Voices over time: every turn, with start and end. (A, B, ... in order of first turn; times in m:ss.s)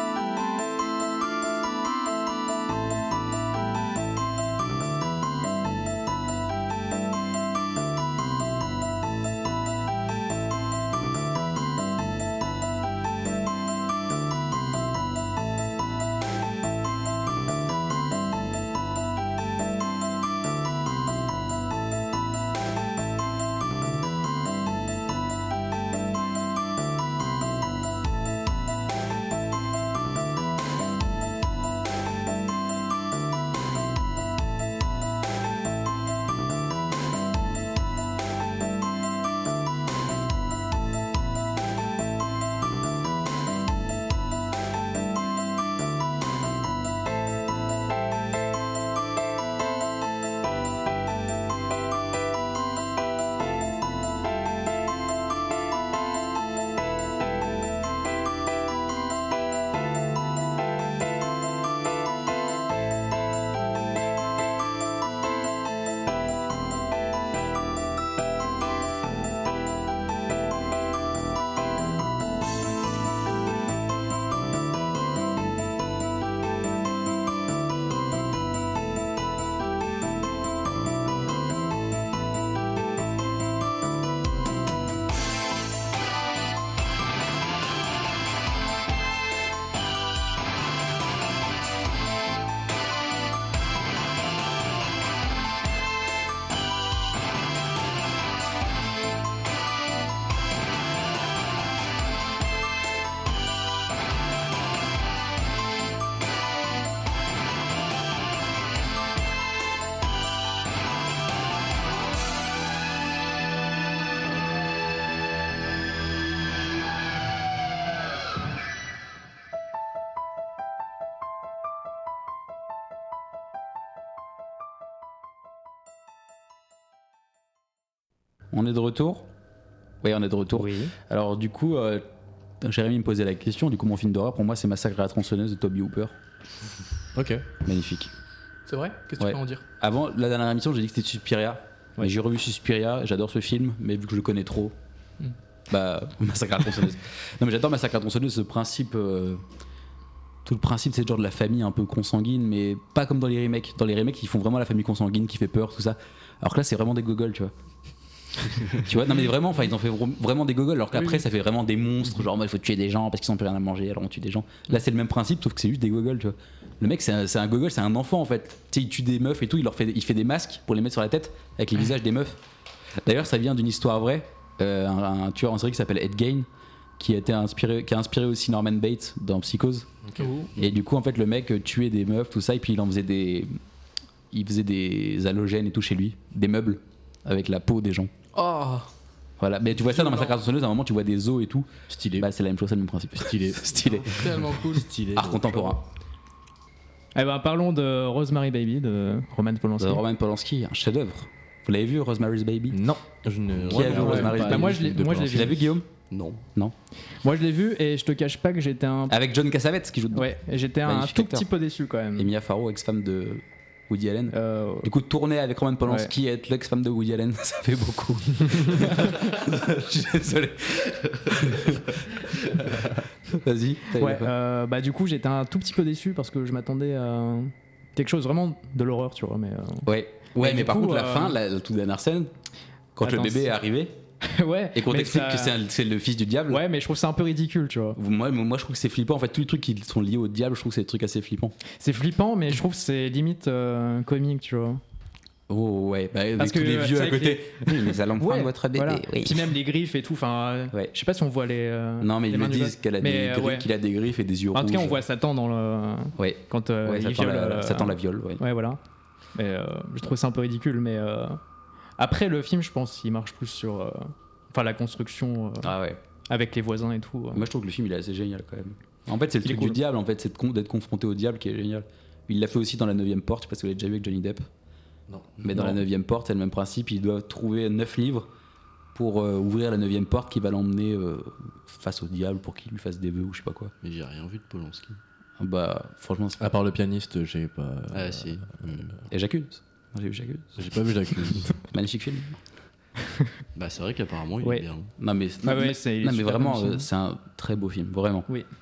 2:08.5-2:09.3 A
2:10.0-2:12.0 A
2:10.6-2:10.9 B
2:12.6-2:16.2 A
2:17.2-2:17.5 C
2:17.6-2:18.1 A
2:18.7-2:19.6 D
2:19.2-2:24.8 A
2:25.7-2:29.4 A
2:30.4-2:37.5 A
2:38.7-2:52.4 A
2:53.0-2:56.5 A
2:57.0-2:59.9 A
3:00.2-3:00.5 D
3:00.6-3:03.5 A
3:04.3-3:08.1 A
3:08.3-3:08.9 D
3:09.4-3:14.6 A
3:09.8-3:10.4 D
3:11.9-3:12.3 C
3:13.2-3:13.7 C
3:14.0-3:14.9 D
3:14.7-3:15.8 C
3:15.1-3:15.8 A
3:17.2-3:20.0 B
3:19.8-3:22.8 A
3:22.7-3:25.6 C
3:23.5-3:24.5 E
3:23.7-3:25.9 A
3:23.9-3:25.6 B
3:26.1-3:26.4 E
3:27.2-3:29.2 B
3:29.1-3:30.3 A
3:30.1-3:32.3 B
3:30.8-3:31.5 A
3:32.2-3:44.3 A
3:34.3-3:34.9 B
3:44.0-3:51.4 B
3:49.8-3:52.3 A
3:53.0-3:53.9 A
3:53.0-3:53.5 B
3:54.3-3:55.6 B
3:54.7-3:56.6 A
3:56.5-3:58.0 B
3:58.0-4:01.5 A
4:01.8-4:04.8 B
4:05.5-4:09.5 A
4:06.4-4:13.7 B
4:12.0-4:15.0 A
4:14.5-4:18.8 B
4:16.2-4:18.4 A
4:19.4-4:21.4 B
4:22.0-4:25.7 B
4:25.6-4:26.0 A
4:26.3-4:27.5 B
4:27.3-4:34.5 A
4:29.4-4:29.8 B
4:35.1-4:35.5 C
4:35.4-4:38.3 A
4:38.9-4:43.7 A
4:43.8-4:45.0 E
4:45.4-4:46.6 A
4:46.4-4:48.7 C
4:47.9-4:49.0 E
4:49.1-4:50.6 A
4:50.6-4:51.6 C
4:51.5-4:52.4 A
4:53.6-4:54.9 E
4:55.0-4:58.3 A
4:55.4-4:56.9 B